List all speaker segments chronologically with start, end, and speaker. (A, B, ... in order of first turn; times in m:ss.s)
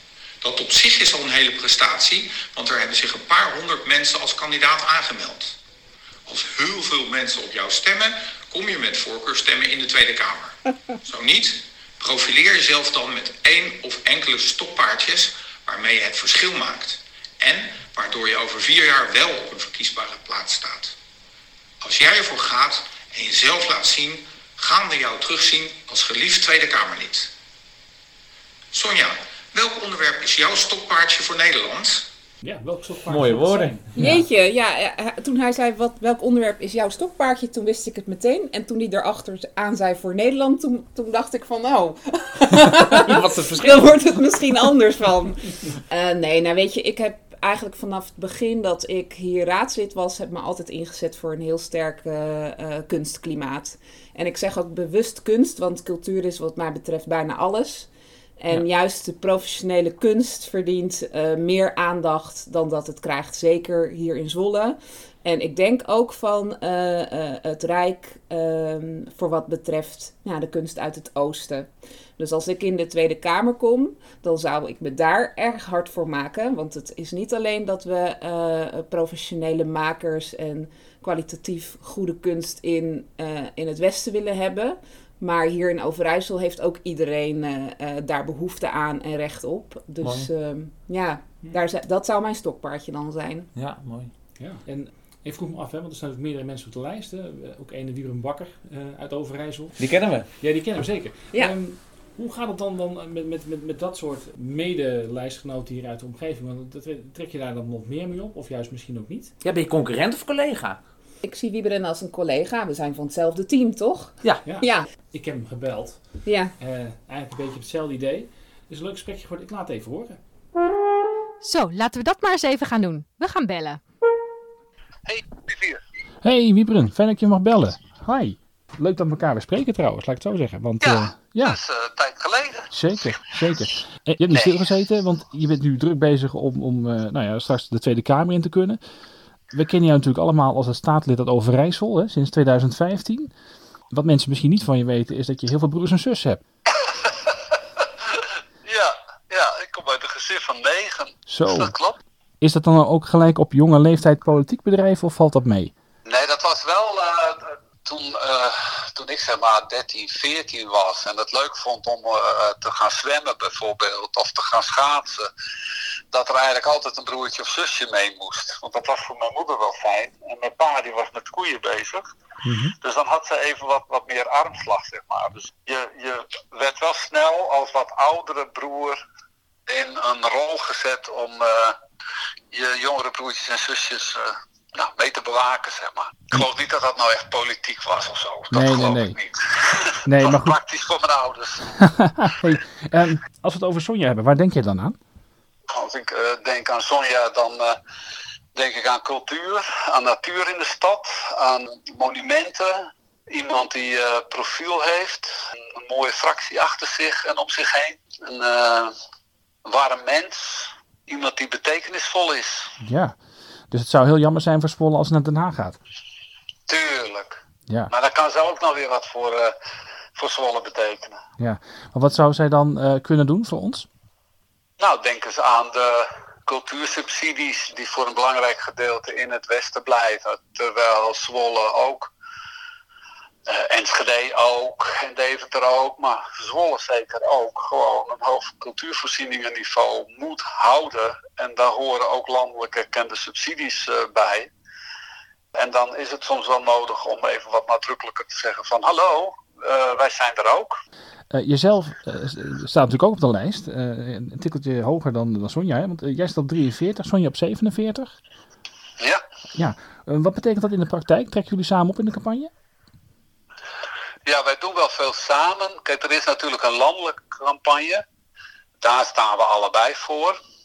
0:00.4-0:05.6 A
0:06.2-0:21.0 A
0:21.8-0:27.3 A
0:28.7-0:32.0 A
0:32.4-0:34.2 B
0:33.1-0:34.1 C
0:33.9-0:57.9 D
0:42.9-0:43.9 C
0:58.4-1:33.5 D
1:30.0-1:30.3 C
1:33.5-1:34.1 C
1:34.4-1:39.8 B
1:39.8-1:40.3 C
1:40.4-1:49.3 B
1:49.4-1:50.8 C
1:51.2-1:54.9 D
1:54.4-2:00.2 B
1:56.2-1:56.5 D
2:01.4-2:03.8 E
2:05.0-2:05.8 F
2:06.2-2:11.6 B
2:10.8-2:12.7 F
2:12.7-2:18.8 B
2:14.3-2:14.6 F
2:19.5-2:23.3 B
2:23.9-2:26.4 B
2:26.9-2:27.3 F
2:28.2-2:32.0 F
2:31.3-2:31.7 B
2:32.4-2:35.7 B
2:36.0-2:45.3 F
2:46.1-2:52.1 F
2:52.4-2:52.7 B
2:52.8-2:59.0 F
2:59.7-3:01.8 F
3:02.5-3:11.6 F
3:08.5-3:09.2 B
3:10.0-3:10.6 B
3:11.8-3:15.0 B
3:15.7-3:17.8 F
3:18.5-3:28.9 F
3:29.6-3:32.7 F
3:32.8-3:33.1 B
3:33.7-3:35.8 B
3:36.7-3:37.4 F
3:37.9-3:39.5 F
3:40.2-3:41.2 F
3:41.4-3:43.9 B
3:44.8-3:52.1 F
3:53.5-4:04.5 F
4:05.5-4:10.8 F
4:11.3-4:18.2 B
4:19.5-4:22.5 B
4:24.2-4:28.0 F
4:28.8-4:30.4 F